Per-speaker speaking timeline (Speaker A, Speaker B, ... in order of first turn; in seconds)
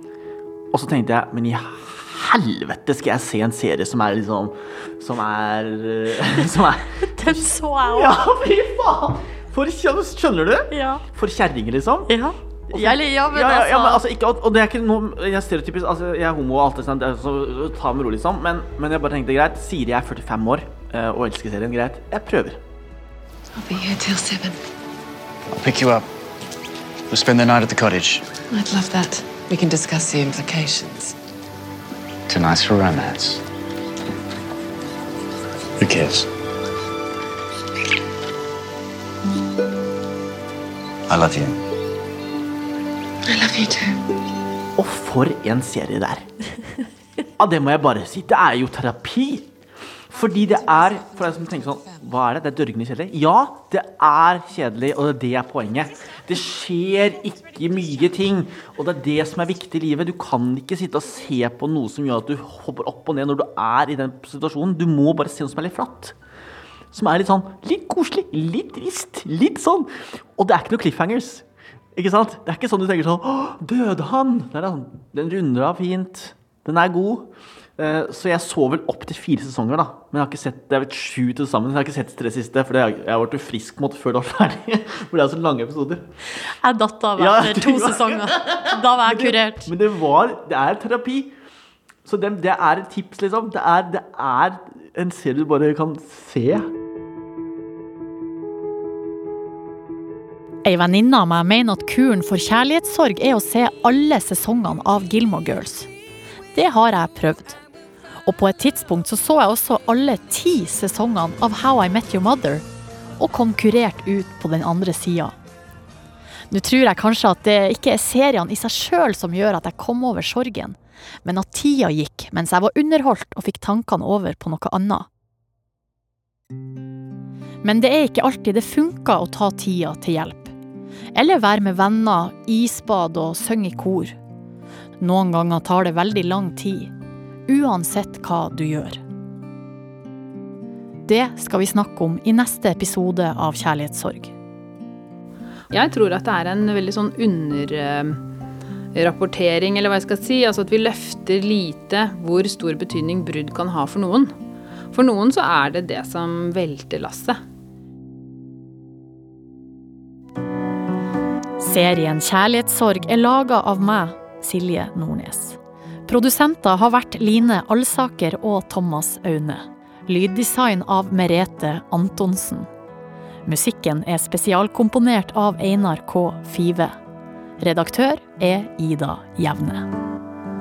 Speaker A: 0.7-12.1, 12.7-22.6, 44.8-46.2, 47.4-49.5, 50.1-66.2, 66.9-86.1, 87.2-91.3, 92.0-96.7
Speaker B: 7.1-8.3, 10.7-11.0, 12.1-14.0, 86.5-89.7, 100.6-105.9, 106.5-107.6, 108.2-112.6, 113.2-115.3, 116.5-125.1, 127.6-130.5, 131.1-134.2, 135.0-136.9, 137.5-139.0, 141.1-144.3, 161.6-172.7, 173.4-176.9, 177.6-179.9
Speaker C: 23.6-24.6, 28.5-31.1, 43.3-43.8
Speaker D: 25.5-26.1, 27.1-28.2, 32.3-33.4, 35.8-36.3, 41.1-41.6
Speaker E: 145.7-148.2, 148.9-154.3, 154.9-157.4